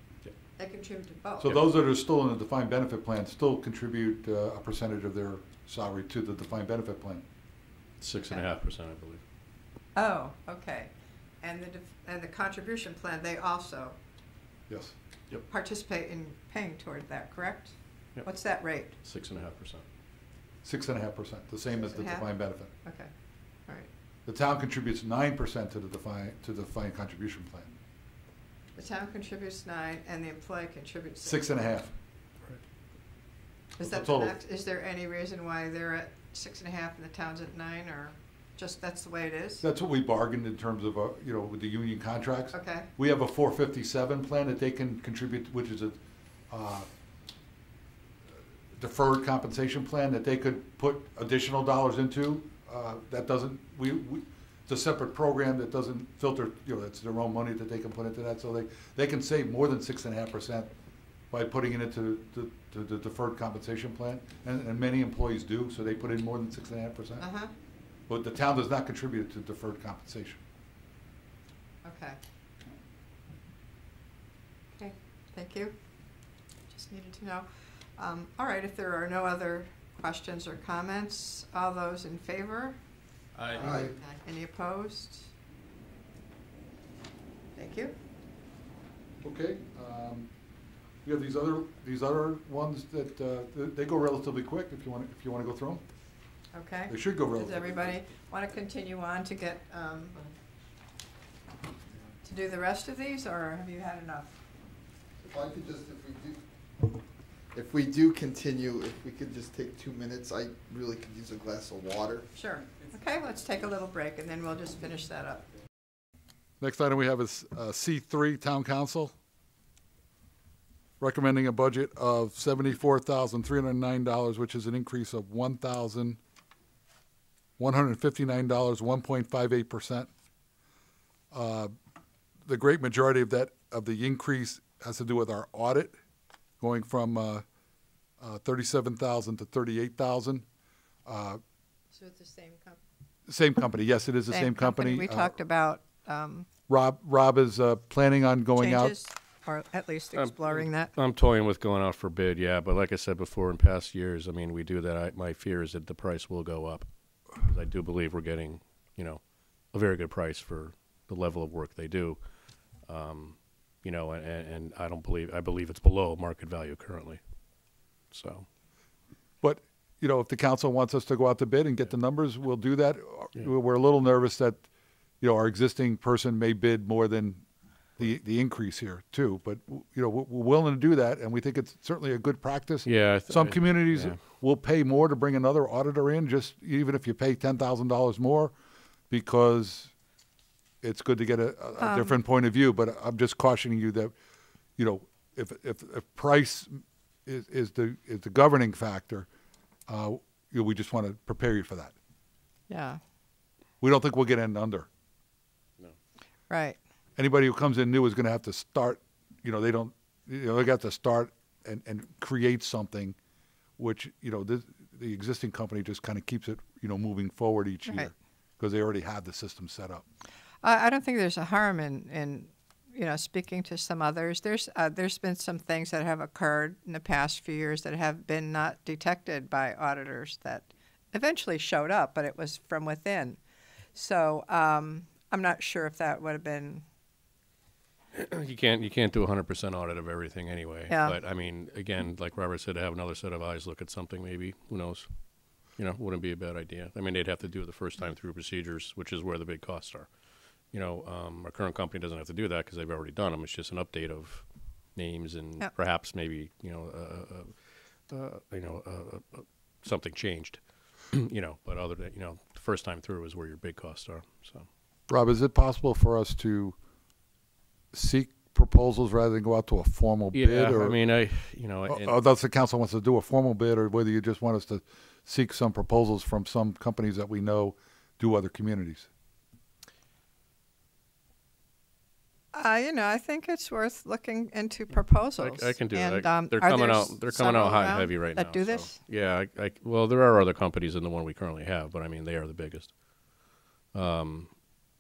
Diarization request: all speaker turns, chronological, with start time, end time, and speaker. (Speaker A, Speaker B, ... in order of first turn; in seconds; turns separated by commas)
Speaker A: 0.6-1.5, Speaker B: 1.4-7.2, Speaker C: 8.0-9.2, Speaker A: 10.0-10.9, Speaker A: 11.4-14.0, Speaker B: 14.7-14.9, Speaker A: 15.5-19.0, Speaker C: 19.0-19.9, Speaker B: 20.6-22.7, Speaker A: 21.7-22.3, Speaker A: 22.8-23.1, Speaker B: 24.3-27.8, Speaker A: 28.8-31.8, Speaker B: 31.2-31.9, Speaker A: 33.8-39.6, Speaker B: 33.8-34.4, Speaker B: 39.6-46.0, Speaker A: 42.5-42.9, Speaker B: 46.5-46.9, Speaker B: 48.8-60.7, Speaker B: 61.3-67.2, Speaker A: 67.2-67.5, Speaker B: 68.1-70.4, Speaker A: 71.8-72.2, Speaker A: 74.8-75.8, Speaker A: 76.7-82.8, Speaker C: 83.4-83.7, Speaker A: 83.5-85.3, Speaker D: 83.6-83.9, Speaker A: 87.6-88.0, Speaker B: 89.2-90.3, Speaker B: 91.0-95.8, Speaker A: 96.5-100.3, Speaker B: 96.9-97.8, Speaker A: 102.2-104.4, Speaker D: 105.2-106.4, Speaker D: 107.5-112.3, Speaker A: 112.3-115.5, Speaker B: 116.6-119.1, Speaker B: 121.0-126.2, Speaker B: 127.6-130.1, Speaker B: 131.3-131.7, Speaker B: 132.5-135.9, Speaker B: 136.6-137.4, Speaker B: 138.2-140.5, Speaker B: 141.1-141.4, Speaker A: 141.9-142.8, Speaker B: 143.3-145.3, Speaker A: 144.3-146.5, Speaker B: 146.7-148.9, Speaker A: 148.6-150.9, Speaker C: 150.2-156.9, Speaker C: 157.4-159.2, Speaker C: 159.7-162.2, Speaker C: 162.9-167.2, Speaker C: 168.1-168.5, Speaker B: 169.4-174.6, Speaker B: 175.2-177.4, Speaker B: 178.0-188.5, Speaker C: 182.8-184.2, Speaker B: 189.1-189.9, Speaker B: 190.8-194.1, Speaker A: 191.8-192.2, Speaker B: 194.8-199.3, Speaker B: 199.9-201.9, Speaker A: 202.7-203.0, Speaker B: 203.8-204.9, Speaker A: 206.5-206.8, Speaker B: 207.2-213.2, Speaker B: 213.8-220.0, Speaker A: 217.9-218.1, Speaker A: 220.6-233.4, Speaker A: 233.9-236.8, Speaker C: 238.1-245.1, Speaker A: 240.9-241.2, Speaker C: 245.8-250.1, Speaker C: 250.7-254.4, Speaker C: 255.0-257.5, Speaker C: 258.1-264.7, Speaker B: 265.1-266.8, Speaker B: 267.9-271.0, Speaker C: 270.3-272.1, Speaker B: 271.9-279.1, Speaker A: 282.5-289.0, Speaker C: 285.4-292.9, Speaker C: 293.9-294.5